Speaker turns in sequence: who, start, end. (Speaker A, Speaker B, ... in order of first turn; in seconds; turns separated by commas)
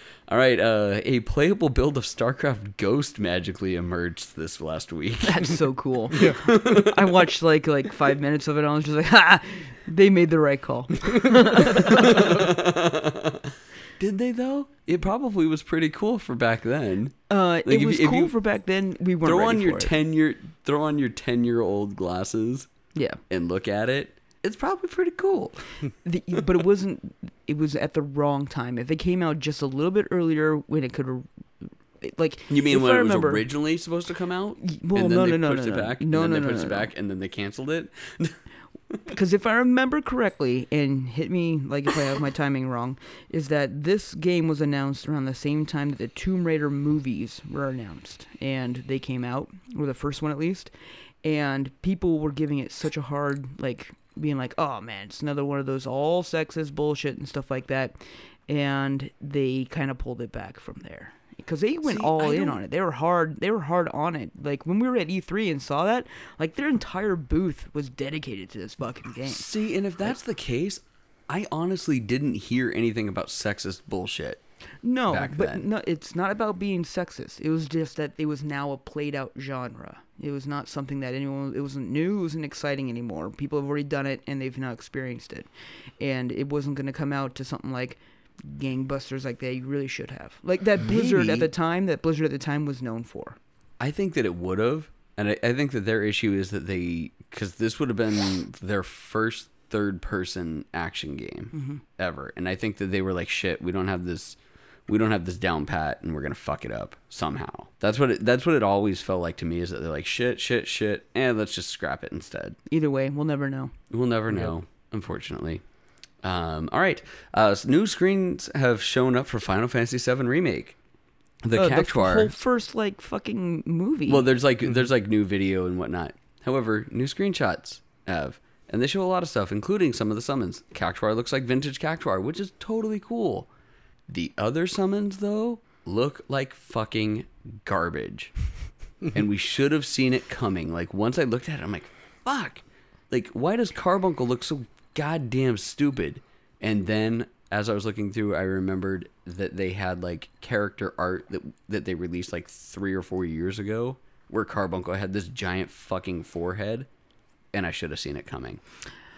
Speaker A: 0.3-5.6, Speaker B: 5.2-12.5, Speaker A: 6.2-7.2, Speaker A: 11.6-18.4, Speaker B: 17.3-19.9, Speaker A: 19.2-22.7, Speaker B: 22.9-23.2, Speaker A: 23.3-25.8, Speaker B: 26.0-33.5, Speaker A: 32.5-38.4, Speaker B: 34.6-36.9, Speaker B: 39.1-50.7, Speaker B: 51.2-69.5, Speaker A: 61.8-62.6, Speaker A: 69.3-74.4, Speaker B: 74.8-85.5, Speaker A: 75.1-75.6, Speaker B: 86.0-93.4, Speaker A: 90.8-91.5, Speaker A: 93.8-112.6, Speaker B: 101.5-101.8, Speaker B: 112.7-113.7, Speaker A: 113.9-115.6, Speaker A: 116.2-120.8, Speaker A: 121.4-122.3, Speaker B: 121.5-124.3, Speaker A: 124.1-133.5, Speaker A: 134.1-138.3, Speaker A: 139.1-156.9, Speaker A: 157.5-158.6